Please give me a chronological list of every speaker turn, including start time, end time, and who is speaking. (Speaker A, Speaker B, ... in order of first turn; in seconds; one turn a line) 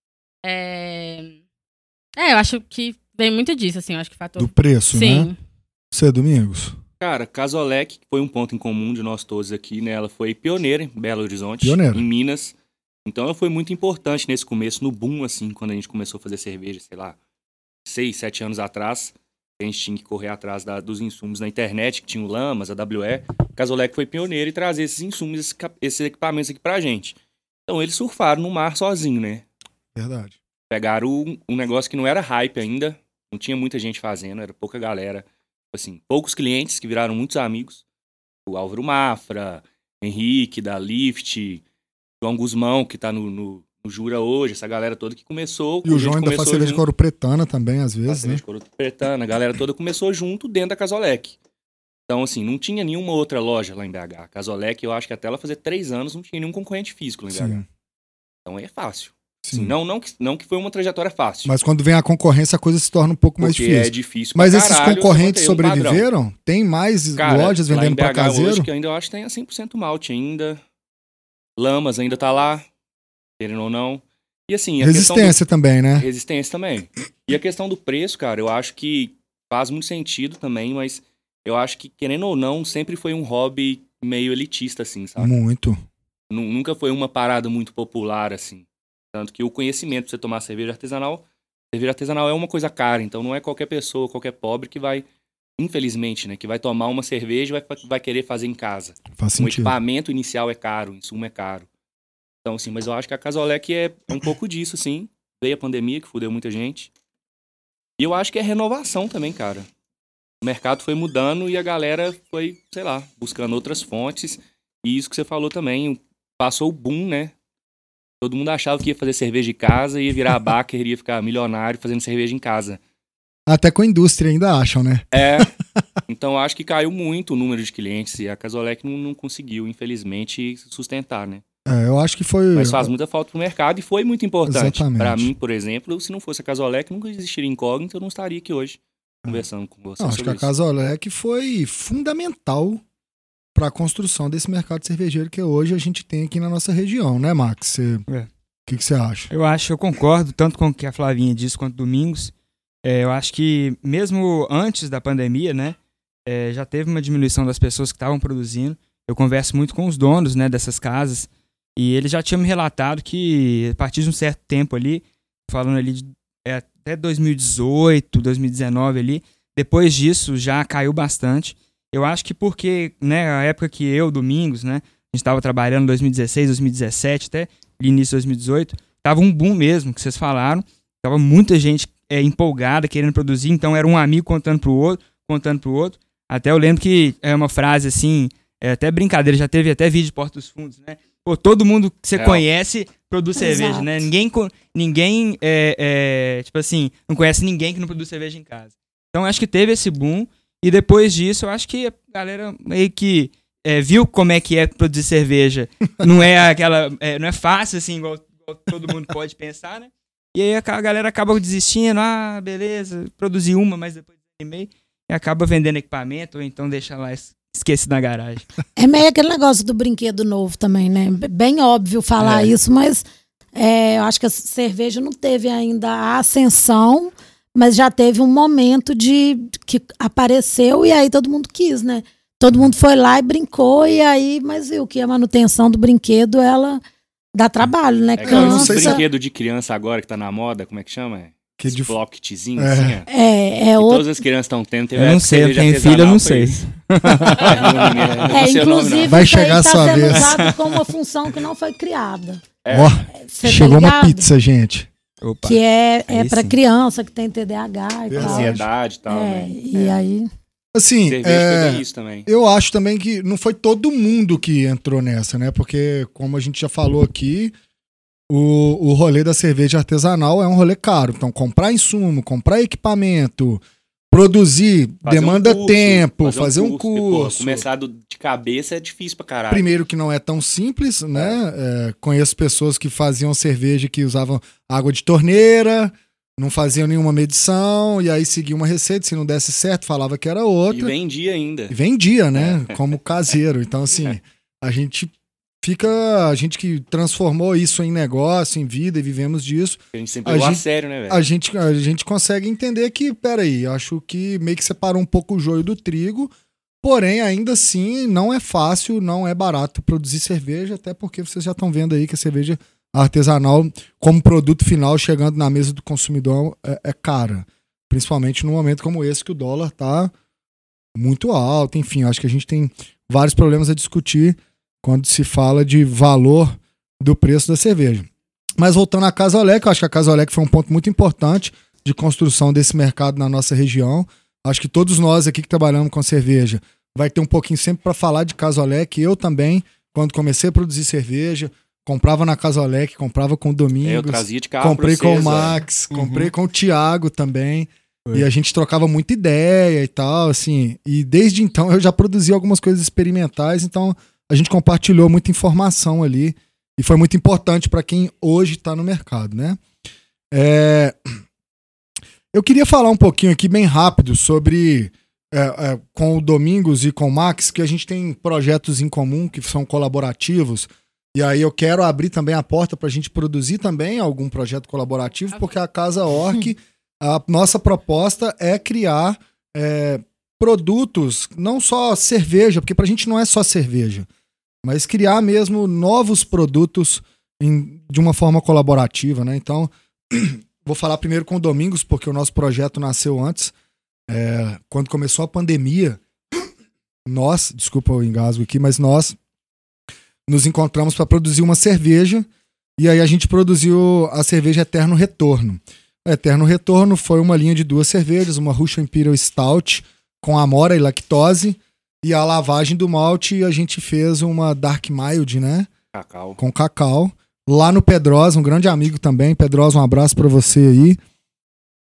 Speaker A: 0.4-1.4
Speaker A: 2.2-5.4
Speaker B: 4.4-5.3
Speaker B: 5.9-6.8
Speaker C: 7.0-17.2
Speaker B: 11.6-12.0
Speaker C: 17.9-27.2
Speaker C: 27.7-29.4
Speaker B: 29.9-30.4
Speaker C: 30.7-37.8
Speaker C: 38.5-41.6
Speaker C: 42.2-46.8
Speaker B: 45.9-48.4
Speaker C: 48.1-51.4
Speaker C: 52.1-57.6
Speaker B: 57.3-57.6
Speaker C: 58.5-61.5
Speaker B: 59.4-59.8
Speaker B: 61.5-68.7
Speaker C: 63.4-66.1
Speaker C: 67.2-70.6
Speaker C: 71.6-72.7
Speaker C: 73.4-75.4
Speaker B: 74.8-76.1
Speaker C: 76.0-85.3
Speaker B: 85.2-85.8
Speaker C: 86.3-95.1
Speaker C: 95.6-101.7
Speaker B: 99.2-99.8
Speaker C: 102.4-106.9
Speaker C: 108.0-109.7
Speaker C: 110.4-117.3
Speaker C: 118.2-122.8
Speaker B: 123.5-125.5
Speaker C: 125.1-125.5
Speaker C: 126.1-131.4
Speaker B: 131.7-132.9
Speaker C: 132.5-140.5
Speaker B: 134.5-135.3
Speaker B: 140.0-142.8
Speaker B: 143.6-148.0
Speaker B: 148.7-149.3
Speaker D: 149.3-152.3
Speaker D: 152.8-218.5
Speaker C: 192.2-192.4
Speaker E: 193.4-194.1
Speaker E: 218.8-236.8
Speaker C: 222.2-222.5
Speaker E: 237.4-239.0
Speaker C: 238.2-243.1
Speaker B: 238.2-239.0
Speaker B: 241.6-242.0
Speaker B: 242.6-243.0
Speaker E: 243.1-244.2
Speaker C: 243.8-246.6
Speaker D: 245.0-248.4
Speaker C: 247.3-249.3
Speaker E: 248.3-252.4
Speaker B: 249.1-250.4
Speaker D: 250.1-250.8
Speaker C: 252.6-253.0
Speaker B: 252.7-254.9
Speaker E: 253.2-254.2
Speaker D: 255.2-256.5
Speaker E: 255.4-260.3
Speaker B: 258.1-258.6
Speaker C: 258.2-259.7
Speaker B: 260.8-267.5
Speaker C: 261.1-262.3
Speaker B: 268.3-277.6
Speaker C: 275.0-279.7
Speaker B: 279.5-290.9
Speaker C: 290.7-291.7
Speaker B: 291.7-295.1
Speaker C: 292.4-292.8
Speaker B: 295.6-306.3
Speaker C: 299.9-301.2
Speaker B: 306.8-320.1
Speaker B: 320.9-359.6
Speaker C: 343.8-345.6
Speaker D: 345.9-346.3
Speaker B: 360.3-361.2
Speaker B: 362.3-384.1
Speaker B: 384.6-393.5
Speaker B: 394.1-396.0
Speaker B: 397.1-399.2
Speaker B: 400.3-415.7
Speaker C: 415.9-416.4
Speaker B: 416.4-421.0